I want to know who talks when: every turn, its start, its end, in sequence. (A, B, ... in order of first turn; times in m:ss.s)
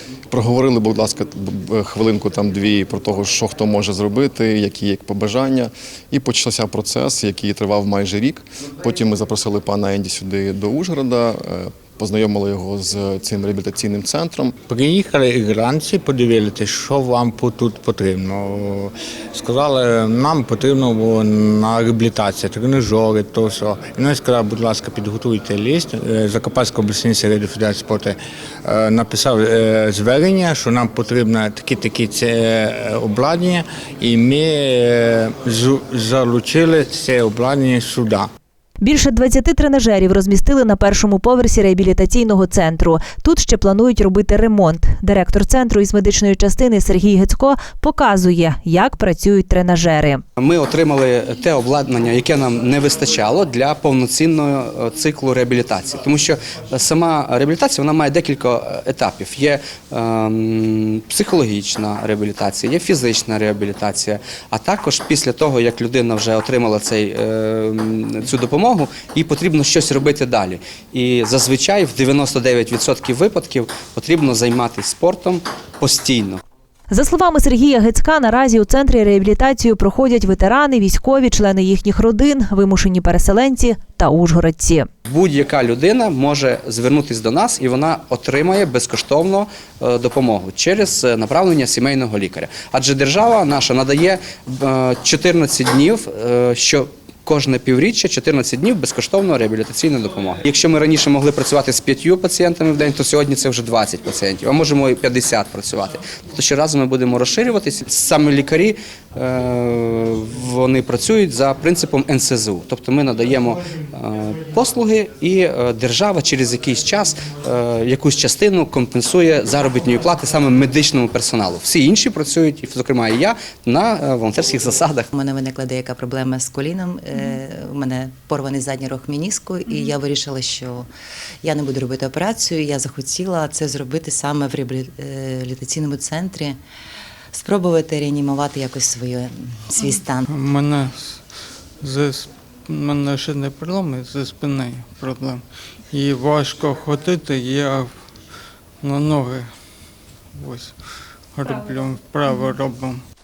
0:00.3-0:14.6 A
0:14.7-0:38.3 B
0:38.8-0:50.2 C
0:50.4-1:16.4 D
1:16.9-1:24.9 C
1:25.1-2:05.1 D
2:05.2-2:10.9 E
2:11.4-2:16.6 E
2:17.3-2:20.3 E
2:20.3-2:21.2 F
2:21.8-2:27.9 F
2:28.8-2:29.5 F
2:30.4-2:30.7 F
2:31.3-2:33.0 F